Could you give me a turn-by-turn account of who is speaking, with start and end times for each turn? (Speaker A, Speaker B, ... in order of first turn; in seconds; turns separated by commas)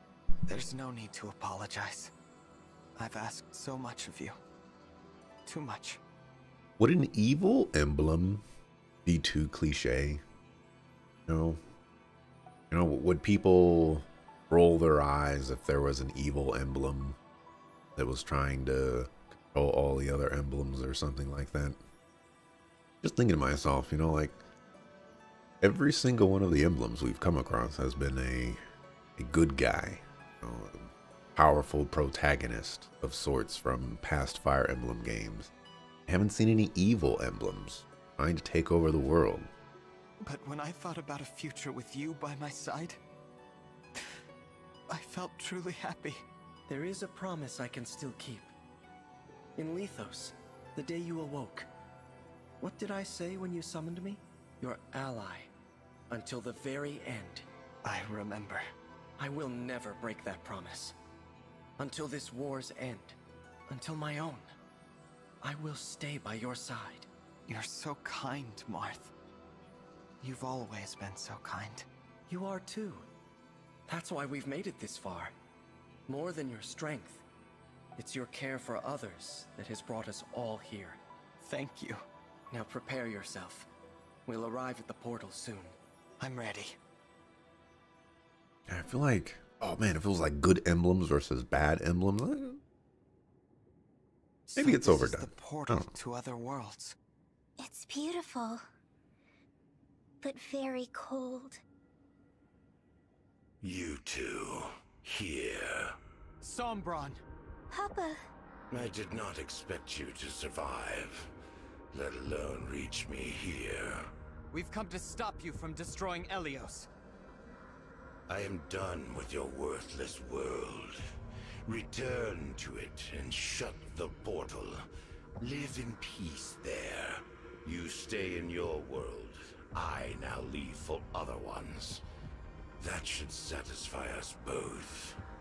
Speaker A: 0.5-2.1, Speaker A: 3.0-4.4, Speaker A: 5.5-6.0, Speaker B: 6.8-8.4, Speaker B: 9.0-10.2, Speaker B: 11.3-11.6, Speaker B: 12.7-17.2, Speaker B: 18.0-21.8, Speaker B: 23.0-24.4, Speaker B: 25.6-28.6, Speaker B: 29.2-35.5, Speaker B: 36.1-39.5, Speaker A: 40.2-43.0, Speaker A: 44.9-46.2, Speaker C: 46.7-48.5, Speaker C: 49.6-51.7, Speaker C: 52.6-55.5, Speaker C: 56.1-57.5, Speaker A: 57.8-58.6, Speaker C: 59.2-61.0, Speaker C: 61.8-63.1, Speaker C: 63.7-64.5, Speaker C: 65.4-67.1, Speaker A: 67.5-69.1, Speaker A: 70.2-71.9, Speaker C: 72.3-73.1, Speaker C: 73.9-75.3, Speaker C: 76.1-77.2, Speaker C: 78.0-81.0, Speaker A: 81.4-82.0, Speaker C: 82.5-83.7, Speaker C: 84.2-85.8, Speaker A: 86.2-86.8, Speaker B: 88.7-92.6, Speaker A: 94.5-97.0, Speaker B: 94.6-95.9, Speaker D: 97.6-98.6, Speaker D: 100.2-101.6, Speaker E: 103.6-106.0, Speaker A: 106.4-107.2, Speaker D: 107.7-108.2, Speaker E: 108.7-111.3, Speaker E: 111.9-114.1, Speaker A: 114.5-116.9, Speaker E: 118.3-121.0, Speaker E: 121.7-124.9, Speaker E: 125.4-132.0, Speaker E: 132.8-135.2